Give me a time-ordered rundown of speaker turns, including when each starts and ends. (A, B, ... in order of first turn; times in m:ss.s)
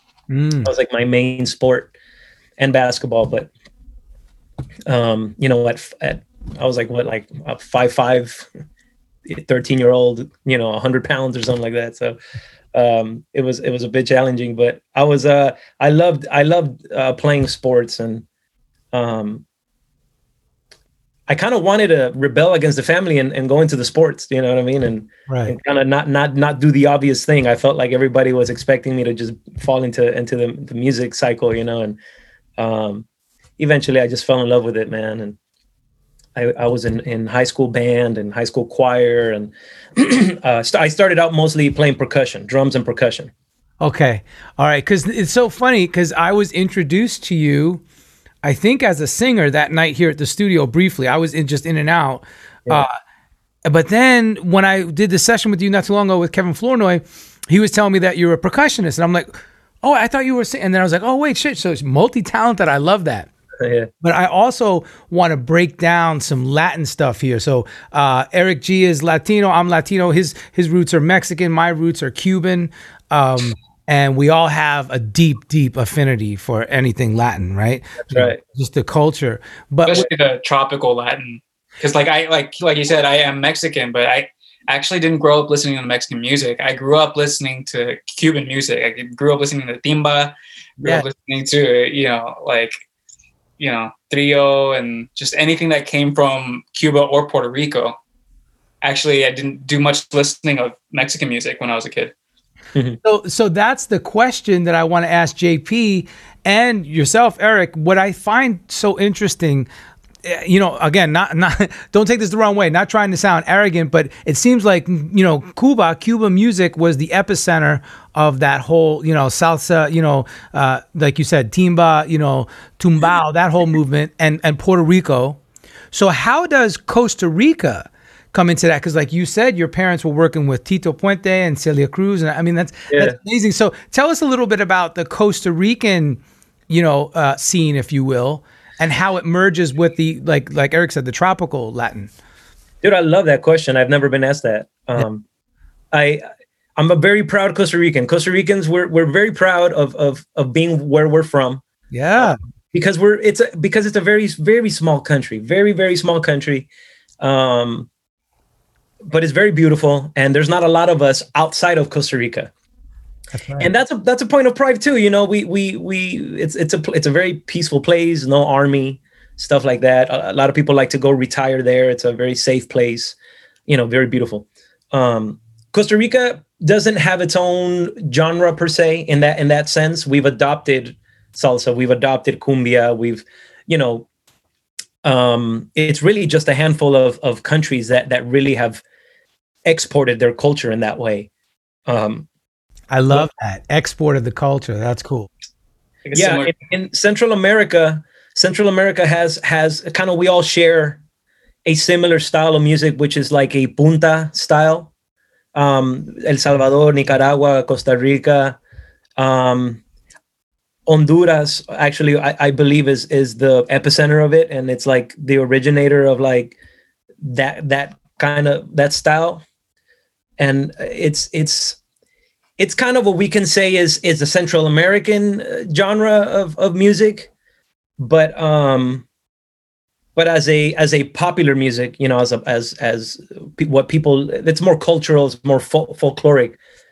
0:00.3-0:00.7 A
0:00.6-0:01.9 B
0:02.6-0:03.5 B
0:04.9-0:08.5 B
0:09.3-0:12.2 B
0:12.7-0:18.2 B
0:18.9-0:19.4 B
0:21.3-0:32.0 B
0:25.3-0:25.6 A
0:32.6-0:33.1 B
0:33.6-0:35.4 B
0:36.4-0:43.3 B
0:43.8-0:47.8 A
0:48.4-0:53.0 A
0:53.6-1:03.3 A
1:03.6-1:03.9 B
1:04.0-1:20.0 A
1:18.1-1:18.4 B
1:19.9-1:32.7 C
1:33.6-1:38.0 C
1:38.8-1:42.1 C
1:43.0-1:49.7 A
1:50.2-2:05.4 A
2:05.9-2:22.1 A
2:12.9-2:13.2 B
2:22.8-2:25.2 B
2:25.9-2:26.2 B
2:26.8-2:31.6 B
2:31.9-2:32.4 A
2:32.2-2:36.7 B
2:37.2-2:37.9 B
2:39.1-2:42.5 B
2:43.3-2:43.7 A
2:43.6-2:53.2 B
2:53.7-3:04.1 B
3:05.0-3:08.8 B
3:09.6-3:11.3 B
3:11.9-3:12.3 B
3:12.9-3:15.3 A
3:16.0-3:16.5 C
3:16.1-3:21.0 B
3:21.6-3:24.9 B
3:25.6-3:28.6 B
3:29.2-3:29.8 B
3:30.9-3:36.6 B
3:37.2-3:39.4 B
3:40.4-3:41.8 B
3:42.6-3:47.3 B
3:48.0-3:49.1 B
3:50.2-3:56.6 B